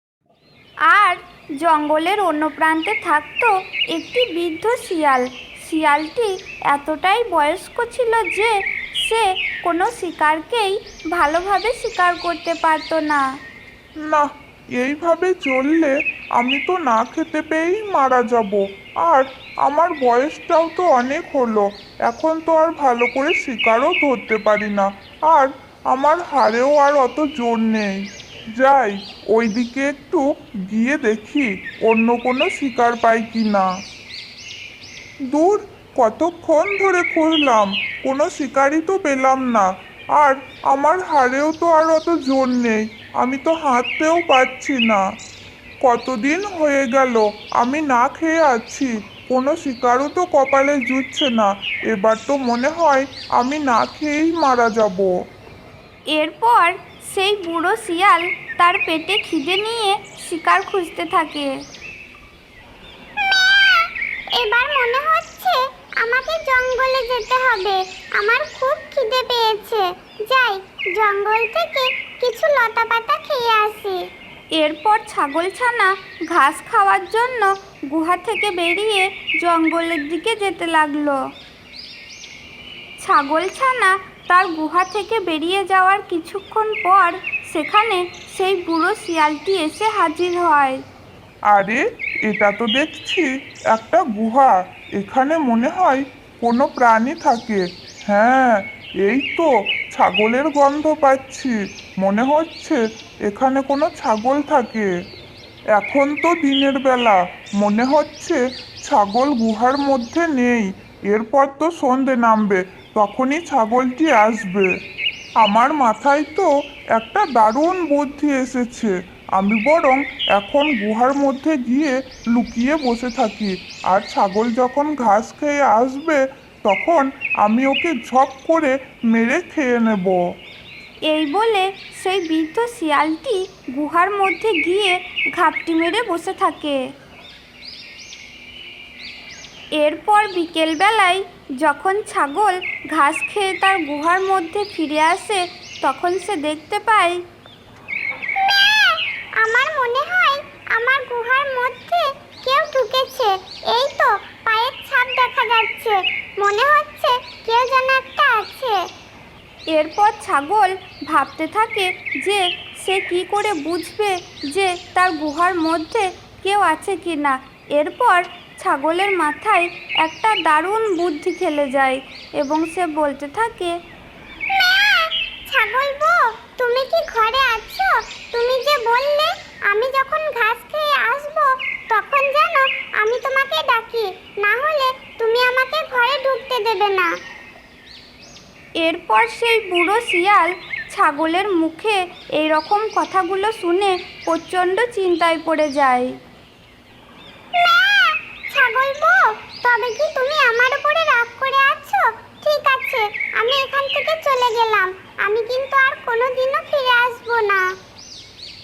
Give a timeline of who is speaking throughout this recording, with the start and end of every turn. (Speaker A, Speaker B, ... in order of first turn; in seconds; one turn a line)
Speaker A: 0.9-13.2
Speaker B: 14.8-33.6
Speaker B: 35.3-45.0
Speaker B: 45.8-55.1
Speaker A: 56.1-61.5
Speaker C: 63.2-74.0
Speaker A: 74.6-81.2
Speaker A: 83.0-90.8
Speaker B: 91.5-104.9
Speaker B: 105.7-114.7
Speaker B: 115.4-130.2
Speaker A: 131.1-136.8
Speaker A: 139.8-147.2
Speaker C: 148.4-158.8
Speaker A: 159.7-173.7
Speaker C: 174.5-187.1
Speaker A: 188.8-196.1
Speaker C: 197.6-207.6